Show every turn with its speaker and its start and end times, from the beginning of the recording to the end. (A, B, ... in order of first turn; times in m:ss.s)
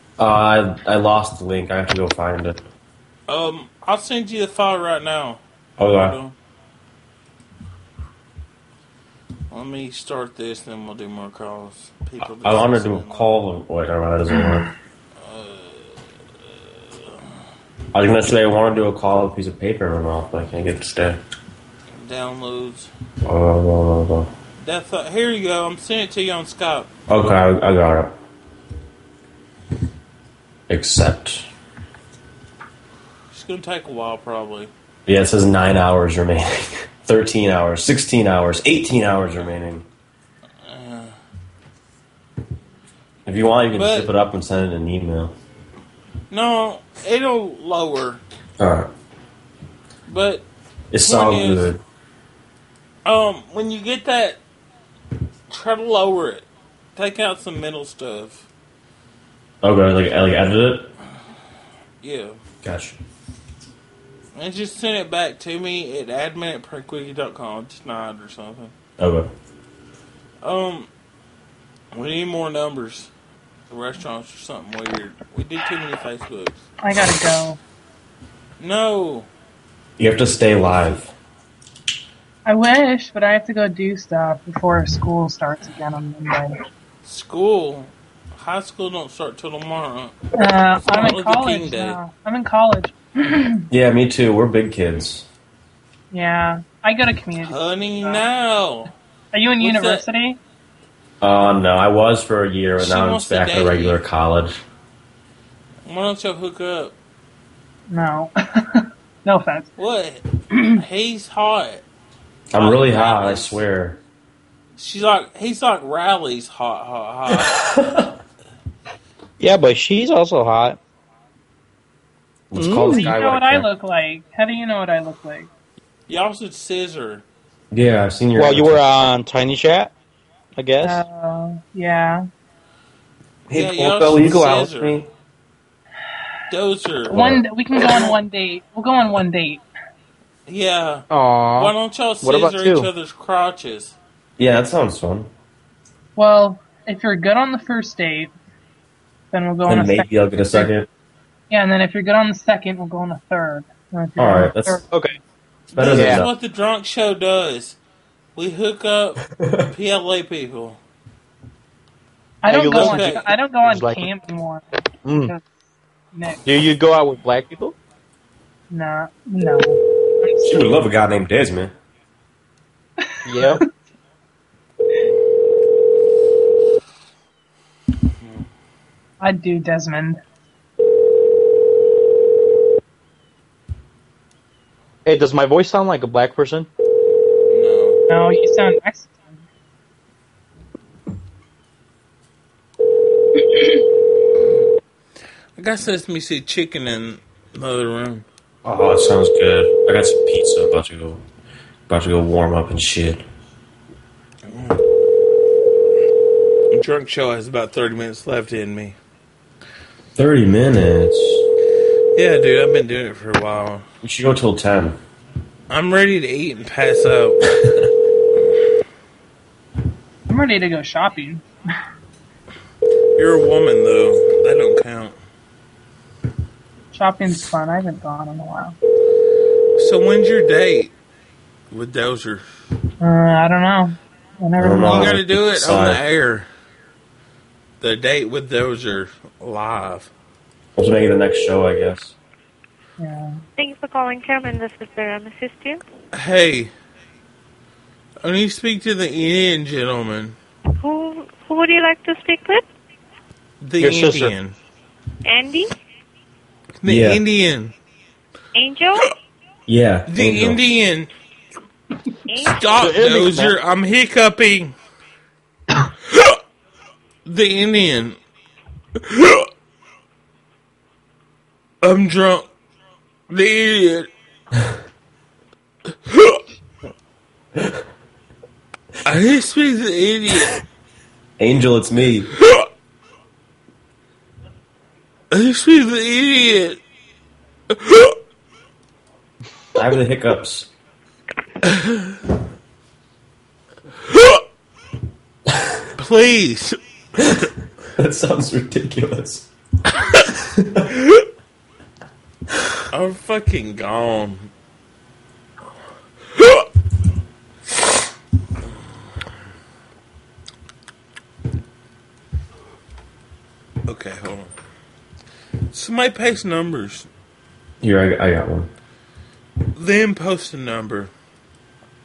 0:00.2-0:02.6 A
0:03.3-0:06.4 B
0:05.8-0:06.2 A
0:09.5-0:13.3 B
0:12.4-0:14.7 A
0:15.2-0:16.0 B
0:16.9-0:17.2 B
0:17.9-0:21.2 A
0:21.9-0:22.9 B
0:23.2-0:24.3 A
0:24.6-0:26.9 B
0:27.1-0:28.1 A
0:30.7-0:31.4 A
0:33.3-0:34.7 B
0:35.1-0:39.8 A
0:40.6-0:41.2 B
0:43.3-0:45.3 A
0:43.7-0:44.1 B
0:46.3-0:48.2 B
0:48.6-0:48.9 A
0:50.1-0:50.5 B
0:50.9-0:51.8 A
0:51.0-0:51.7 B
0:53.0-0:54.4 B
0:55.5-0:58.5 B
0:59.6-1:00.9 A
1:02.0-1:02.4 B
1:02.6-1:03.0 A
1:04.4-1:08.7 B
1:09.0-1:09.3 A
1:10.4-1:10.9 B
1:11.9-1:13.1 B
1:13.7-1:16.7 B
1:16.8-1:17.6 C
1:18.6-1:19.3 B
1:20.0-1:21.1 A
1:22.5-1:26.5 C
1:27.0-1:30.2 B
1:30.4-1:33.6 C
1:30.8-1:32.0 B
1:33.7-1:35.3 A
1:36.1-1:38.2 C
1:37.4-1:38.9 B
1:39.3-1:40.4 C
1:39.6-1:40.0 B
1:41.2-1:44.6 A
1:42.8-1:44.0 B
1:45.8-1:47.0 B
1:47.9-1:49.7 C
1:49.8-1:50.2 B
1:50.6-1:50.8 C
1:50.8-1:51.8 B
1:52.5-1:54.0 A
1:52.6-1:53.5 B
1:54.8-1:57.5 B
1:57.4-1:58.1 A
1:59.4-2:00.8 D
2:02.5-2:03.7 A
2:02.5-2:03.4 D
2:02.9-2:05.5 C
2:06.1-2:07.2 B
2:07.7-2:08.9 A
2:08.4-2:09.9 D
2:10.6-2:11.0 D
2:10.8-2:12.2 C
2:13.5-2:15.1 A
2:13.5-2:15.0 B
2:16.5-2:17.3 B
2:17.1-2:19.6 C
2:20.5-2:24.0 B
2:21.1-2:22.9 D
2:24.4-2:25.3 A
2:26.2-2:28.3 C
2:29.3-2:30.7 C
2:29.6-2:30.9 A
2:31.5-2:34.8 C
2:34.2-2:34.8 A
2:34.9-2:35.2 D
2:35.7-2:37.8 B
2:35.7-2:36.3 A
2:35.9-2:36.2 D
2:38.4-2:40.8 B
2:39.4-2:39.7 A
2:42.4-2:44.6 C
2:42.4-2:44.1 D
2:42.7-2:43.2 B
2:45.0-2:45.3 D
2:45.2-2:45.4 C
2:46.1-2:46.4 C
2:46.4-2:47.8 D
2:48.7-2:50.7 C
2:50.4-2:51.7 A
2:53.3-2:53.6 D
2:53.3-2:53.6 C
2:59.2-3:00.2 C
3:05.0-3:06.7 D
3:07.5-3:08.0 B
3:08.1-3:09.4 C
3:15.6-3:18.2 B
3:18.6-3:21.2 A
3:21.9-3:23.2 A
3:24.5-3:24.8 B
3:26.7-3:29.0 B
3:30.2-3:31.4 A
3:32.2-3:33.8 B
3:34.0-3:35.0 A
3:35.7-3:37.4 B
3:40.3-3:41.5 C
3:43.2-3:45.2 B
3:46.9-3:48.8 C
3:49.8-3:50.9 B
3:51.7-3:52.4 B
3:53.0-3:55.2 C
3:54.6-3:56.0 A
3:54.9-3:56.5 B
3:57.8-4:00.1 B
4:00.8-4:02.1 A
4:03.0-4:03.4 C
4:03.6-4:05.8 E
4:06.1-4:06.7 B
4:08.2-4:10.4 B
4:10.8-4:12.6 E
4:13.6-4:14.6 B
4:13.8-4:14.3 D
4:15.2-4:15.7 E
4:16.8-4:17.7 B
4:16.9-4:17.2 A
4:18.6-4:19.1 E
4:19.7-4:20.6 A
4:20.1-4:21.1 B
4:22.3-4:22.7 E
4:22.4-4:24.7 B
4:22.8-4:23.6 D
4:27.3-4:28.2 B
4:29.1-4:29.4 B
4:31.8-4:32.5 B
4:33.3-4:34.1 B
4:36.1-4:36.4 B
4:39.0-4:40.6 B
4:41.4-4:42.3 A
4:45.3-4:46.8 B
4:47.7-4:48.1 B
4:49.8-4:50.7 A
4:51.7-4:52.1 B
4:56.0-4:56.8 B
4:58.0-4:59.5 A
5:00.6-5:00.9 A
5:02.9-5:04.5 B
5:13.9-5:14.5 B
5:15.7-5:17.1 B
5:17.8-5:18.7 A
5:19.8-5:21.1 B